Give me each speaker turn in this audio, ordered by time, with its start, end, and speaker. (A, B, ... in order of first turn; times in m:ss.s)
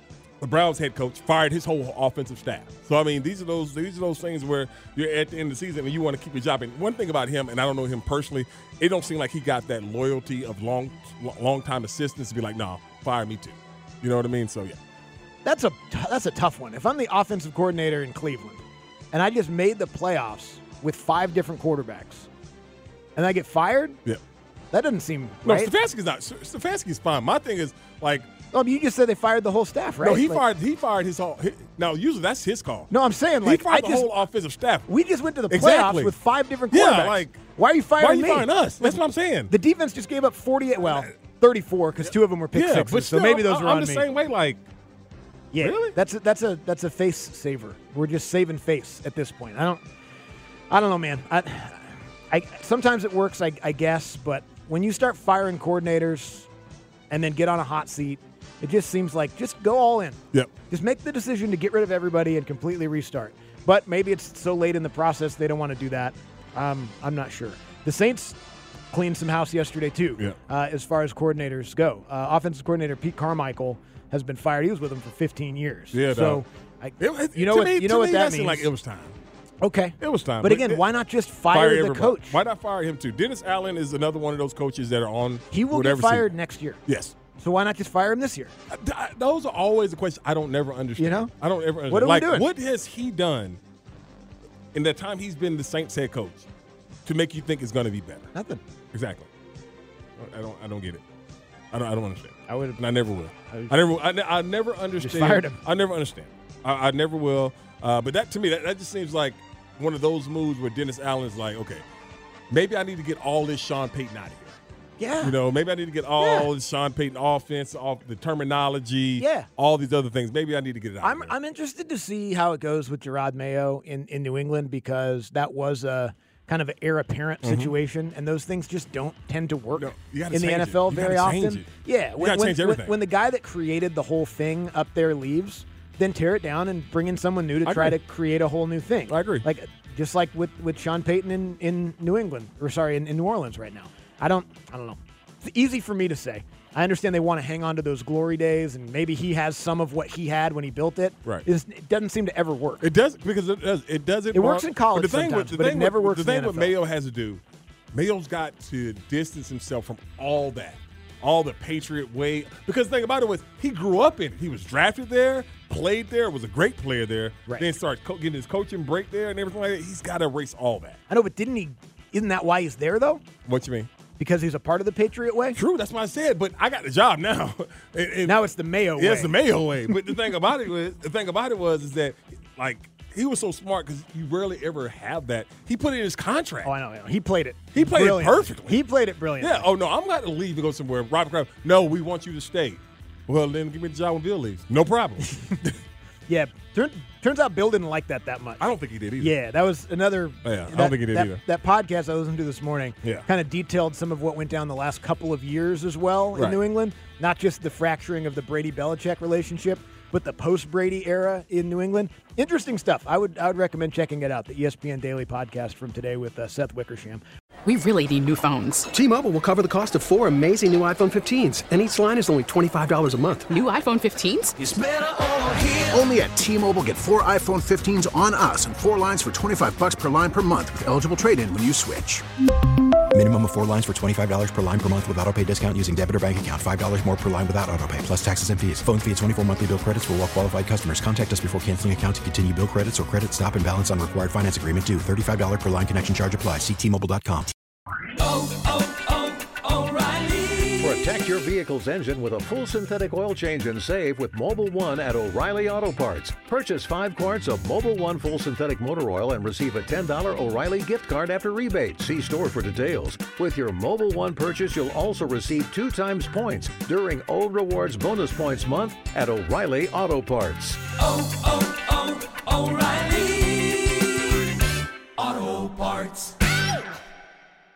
0:00.4-0:14.8 A
0:15.4-0:18.6 B
0:19.1-0:22.3 B
0:23.2-0:24.0 B
0:24.7-0:25.7 B
0:25.4-0:28.3 A
0:28.5-0:30.4 B
0:30.0-0:32.9 A
0:32.9-0:34.1 B
0:33.4-0:34.9 A
0:34.9-0:44.1 B
0:35.5-0:36.2 A
0:36.7-0:37.4 A
0:38.0-0:39.5 A
0:40.8-0:41.1 A
0:42.1-0:44.6 A
0:45.5-0:49.8 B
0:45.6-0:46.0 A
0:50.7-0:56.5 B
0:57.1-1:00.2 B
1:00.7-1:08.4 B
1:08.9-1:18.7 B
1:15.9-1:16.4 A
1:17.0-1:19.2 A
1:19.6-1:22.4 B
1:20.0-1:20.8 A
1:21.5-1:26.3 A
1:25.5-1:26.8 B
1:26.9-1:27.2 A
1:27.4-1:28.5 B
1:28.7-1:33.6 A
1:31.0-1:31.3 B
1:31.9-1:32.5 B
1:34.7-1:36.5 A
1:37.0-1:38.3 A
1:38.3-1:38.6 B
1:38.9-1:39.3 A
1:40.2-1:41.0 A
1:41.7-1:51.8 A
1:42.5-1:42.8 B
1:43.5-1:43.8 B
1:45.0-1:45.6 B
1:52.5-1:54.6 A
1:55.0-1:55.4 B
1:55.2-2:01.3 A
1:56.2-1:56.5 B
1:59.2-1:59.5 B
2:01.0-2:32.9 B
2:07.4-2:07.8 A
2:09.8-2:12.9 A
2:17.6-2:18.0 A
2:19.1-2:19.5 A
2:32.8-2:37.4 A
2:34.3-2:36.7 B
2:37.9-2:51.0 A
2:51.1-2:53.2 B
2:53.4-2:53.9 A
2:54.2-2:55.6 B
2:55.6-3:06.7 A
2:58.2-2:59.4 B
3:06.6-3:09.7 B
3:07.7-3:08.8 A
3:09.4-3:15.8 A
3:16.3-3:18.7 B
3:18.6-3:19.4 A
3:19.2-3:37.2 B
3:20.4-3:21.4 A
3:37.7-3:38.9 C
3:38.9-3:43.5 D
3:43.4-3:44.6 C
3:45.7-3:52.2 E
3:53.1-4:07.5 F
4:08.3-4:08.9 G
4:09.8-4:33.7 G
4:35.2-4:36.3 G